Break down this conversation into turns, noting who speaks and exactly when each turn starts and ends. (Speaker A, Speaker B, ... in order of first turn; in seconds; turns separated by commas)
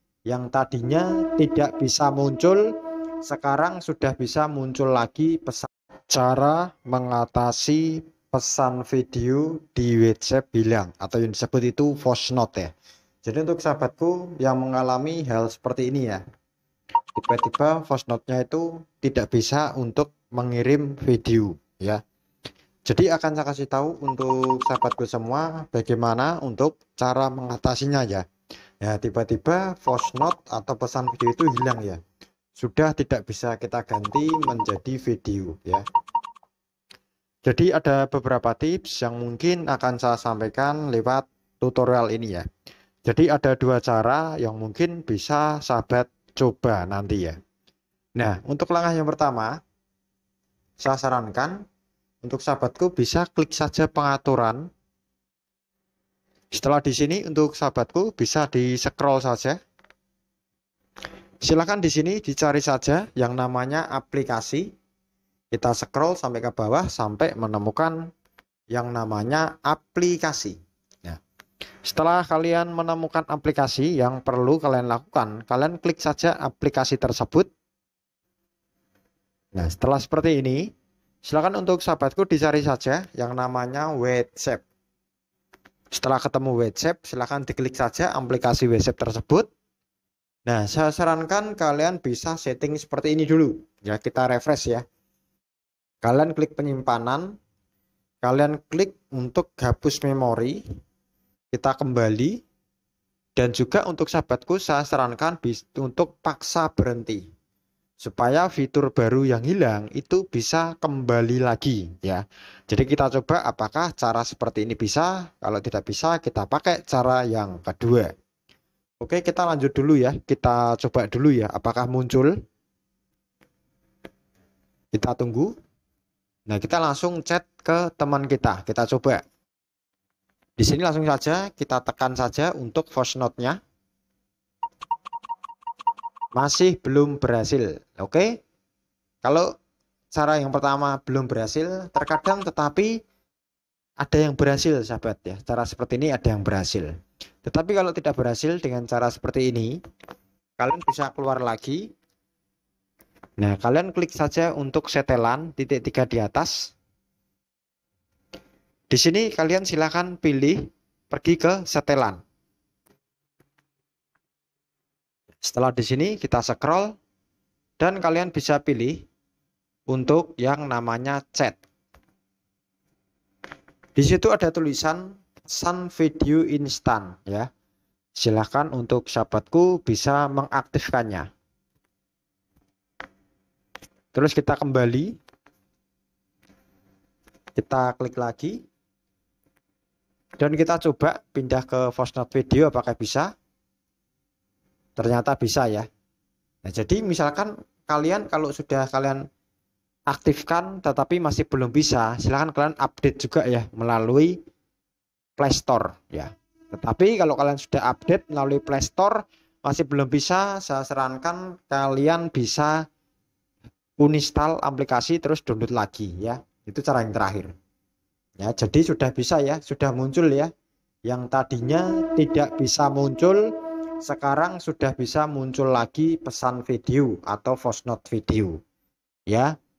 Speaker A: 0.3-2.6, Speaker A: 3.2-12.7, Speaker A: 13.2-16.2, Speaker A: 17.1-22.0, Speaker A: 22.9-28.3, Speaker A: 28.8-32.0, Speaker A: 32.6-35.8, Speaker A: 37.5-42.5, Speaker A: 43.0-47.4, Speaker A: 48.2-49.6, Speaker A: 50.8-51.6, Speaker A: 52.2-54.7, Speaker A: 56.5-59.6, Speaker A: 61.4-64.7, Speaker A: 65.5-68.0, Speaker A: 68.7-71.2, Speaker A: 71.8-77.5, Speaker A: 79.5-80.7, Speaker A: 81.2-84.6, Speaker A: 85.9-89.5, Speaker A: 90.5-94.8, Speaker A: 96.0-97.3, Speaker A: 98.2-100.6, Speaker A: 101.5-102.4, Speaker A: 103.4-107.2, Speaker A: 108.0-118.1, Speaker A: 119.0-122.3, Speaker A: 124.9-125.5, Speaker A: 126.5-129.2, Speaker A: 130.6-133.6, Speaker A: 136.3-138.4, Speaker A: 140.1-142.9, Speaker A: 144.0-146.9, Speaker A: 147.4-149.8, Speaker A: 150.6-151.9, Speaker A: 153.4-156.7, Speaker A: 158.9-162.2, Speaker A: 165.4-166.9, Speaker A: 167.8-169.0, Speaker A: 169.9-171.6, Speaker A: 174.0-177.5, Speaker A: 178.2-181.3, Speaker A: 184.1-185.2, Speaker A: 187.6-188.6, Speaker A: 190.4-193.3, Speaker A: 195.0-195.9, Speaker A: 196.6-199.2, Speaker A: 200.1-204.4, Speaker A: 205.4-212.8, Speaker A: 214.0-217.5, Speaker A: 218.4-220.5, Speaker A: 221.1-223.4, Speaker A: 224.0-228.6, Speaker A: 229.3-229.5